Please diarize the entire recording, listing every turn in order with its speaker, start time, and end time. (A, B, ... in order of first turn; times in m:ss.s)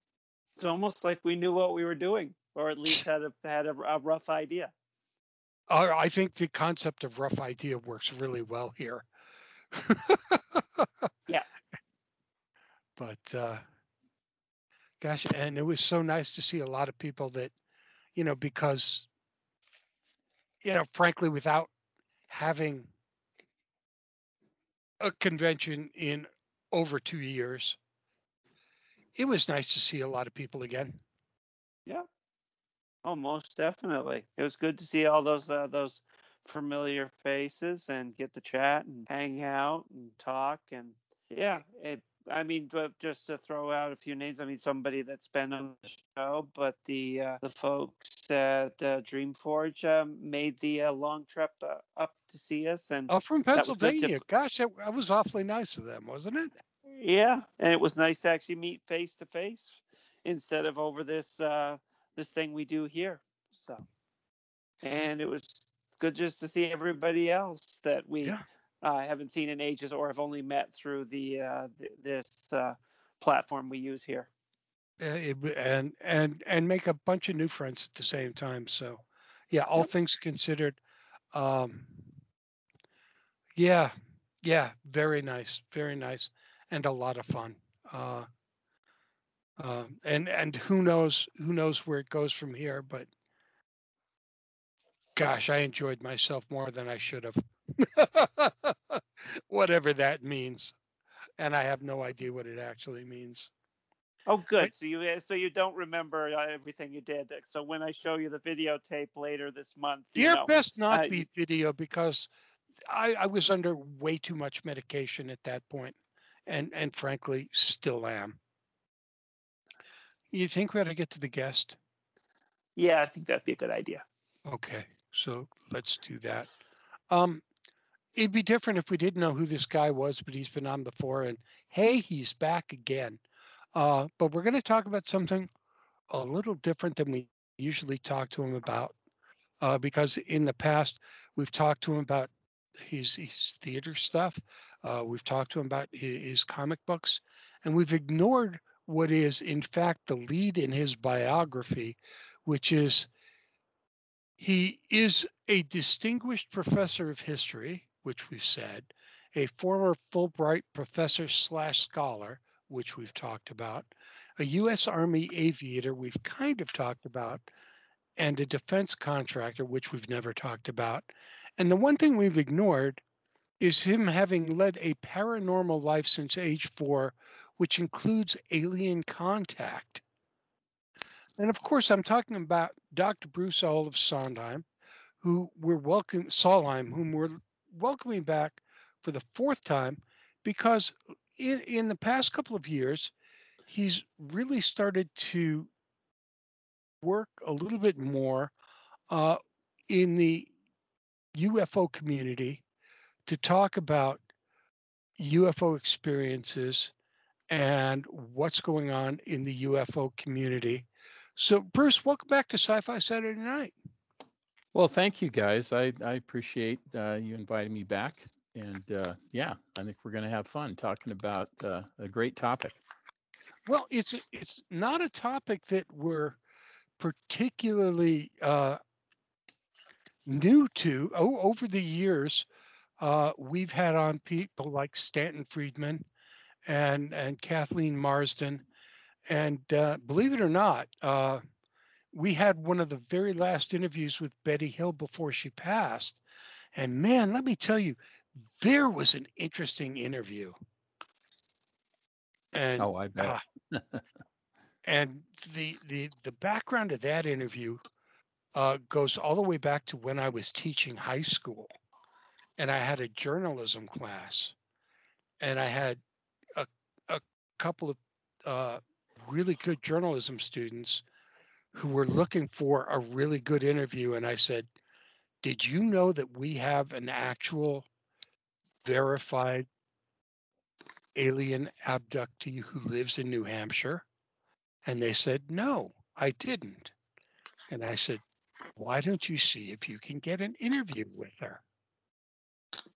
0:00.6-0:04.7 A
0:05.7-0:09.1 B
0:09.7-0:10.9 B
0:13.0-0:13.6 B
0:15.0-0:17.5 B
0:18.2-0:19.1 B
0:20.6-0:21.7 B
0:22.3-0:22.9 B
0:25.0-0:27.8 B
0:29.2-0:31.0 B
0:33.0-0:54.2 A
0:53.1-0:56.6 B
0:57.0-1:03.8 A
1:04.8-1:14.3 A
1:15.0-1:20.8 B
1:21.3-1:22.0 B
1:23.6-1:23.9 B
1:24.4-1:28.3 B
1:29.6-1:33.1 B
1:35.2-1:40.8 B
1:41.4-1:43.5 B
1:44.3-1:51.2 A
1:50.2-1:52.3 B
1:52.9-1:56.0 B
1:56.5-1:58.4 B
2:00.3-2:01.8 B
2:02.8-2:04.0 A
2:04.5-2:06.5 B
2:07.1-2:07.4 B
2:08.2-2:13.2 B
2:13.8-2:15.5 B
2:16.1-2:19.0 B
2:19.6-2:22.3 B
2:22.8-2:33.1 B
2:34.4-2:47.4 B
2:48.2-2:51.1 B
2:51.6-2:53.0 B
2:53.6-3:00.0 B
3:01.4-3:04.7 B
3:05.2-3:13.1 B
3:13.7-3:15.7 B
3:17.0-3:18.5 B
3:19.1-3:20.5 B
3:21.4-3:22.6 B
3:23.3-3:24.2 B
3:25.2-3:26.9 B
3:27.5-3:33.8 B
3:34.7-3:42.8 C
3:43.7-3:46.4 B
3:47.0-3:48.8 B
3:50.3-3:52.5 B
3:53.0-3:56.0 B
3:56.7-3:58.6 B
3:59.3-4:01.4 B
4:02.1-4:06.2 B
4:06.8-4:08.0 B
4:08.6-4:10.6 B
4:12.5-4:13.4 B
4:12.8-4:14.0 C
4:14.8-4:17.8 B
4:18.6-4:21.7 B
4:22.6-4:24.6 B
4:25.4-4:26.0 B
4:26.6-4:31.0 B
4:31.7-4:34.7 B
4:35.4-4:37.9 B
4:38.8-4:39.7 B
4:41.2-4:44.0 B
4:44.9-4:46.9 B
4:47.7-4:48.2 B
4:48.8-4:51.6 B